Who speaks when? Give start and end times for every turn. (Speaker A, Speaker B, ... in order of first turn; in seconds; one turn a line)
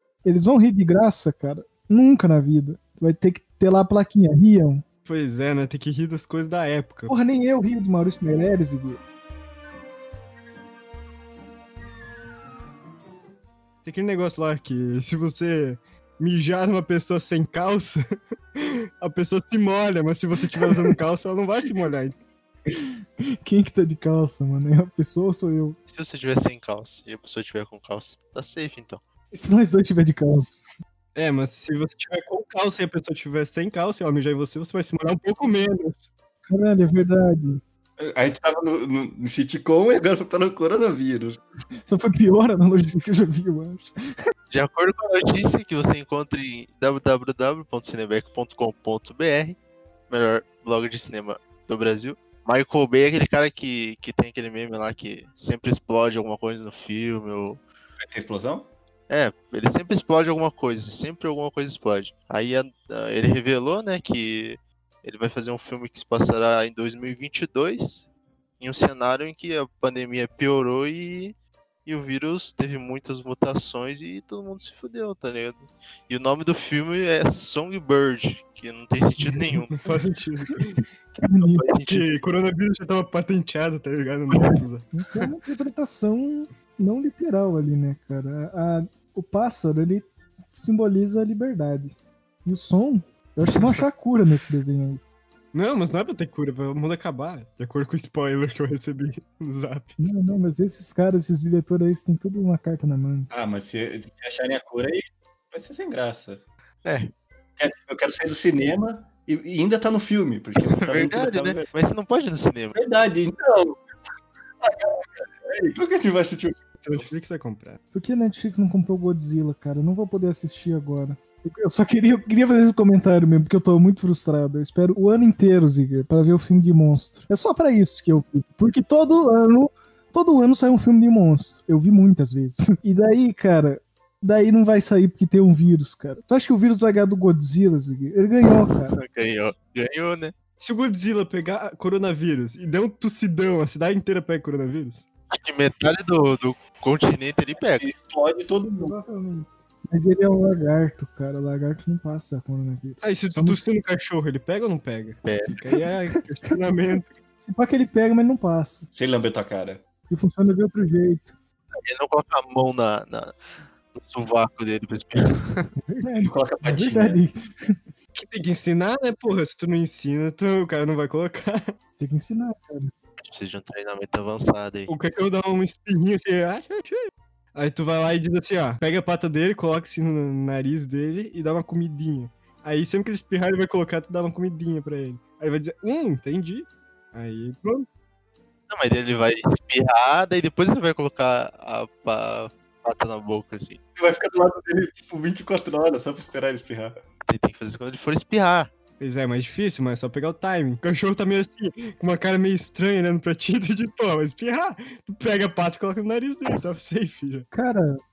Speaker A: 0.2-4.8
Speaker B: 5.0-7.1
Speaker A: 7.1-9.0
Speaker B: 13.8-22.1
Speaker A: 23.4-25.8
Speaker C: 25.9-29.0
Speaker A: 29.3-30.6
Speaker B: 31.1-36.1
Speaker A: 36.5-37.6
Speaker D: 38.0-41.4
Speaker A: 41.8-43.9
Speaker C: 44.5-49.6
Speaker C: 50.1-57.6
Speaker D: 58.0-58.7
Speaker C: 59.1-68.1
Speaker C: 68.6-71.3
Speaker C: 71.8-80.0
Speaker B: 79.2-80.8
Speaker A: 81.1-81.7
Speaker C: 81.4-82.1
Speaker B: 81.8-84.9
Speaker A: 84.9-95.0
Speaker B: 95.5-100.0
Speaker A: 100.0-103.3
Speaker D: 103.3-106.4
Speaker D: 107.6-111.7
Speaker C: 110.5-112.8
Speaker D: 112.7-113.8
Speaker D: 114.6-117.1
Speaker B: 116.8-117.8
Speaker A: 117.9-139.0
Speaker C: 138.5-140.3
Speaker B: 140.6-145.0
Speaker C: 145.3-147.8
Speaker D: 147.6-149.0
Speaker A: 148.8-153.6
Speaker B: 153.0-157.1
Speaker C: 155.2-155.6
Speaker A: 157.4-158.9
Speaker D: 158.9-159.9
Speaker A: 160.1-161.4
Speaker C: 161.8-163.4
Speaker C: 163.9-165.7
Speaker A: 165.9-167.8
Speaker D: 166.2-167.2
Speaker B: 168.1-171.8
Speaker A: 172.0-172.9
Speaker C: 173.2-174.9
Speaker B: 174.9-187.8
Speaker C: 188.7-193.8
Speaker D: 194.0-196.9
Speaker C: 197.3-198.7
Speaker B: 199.0-207.4
Speaker A: 207.5-208.0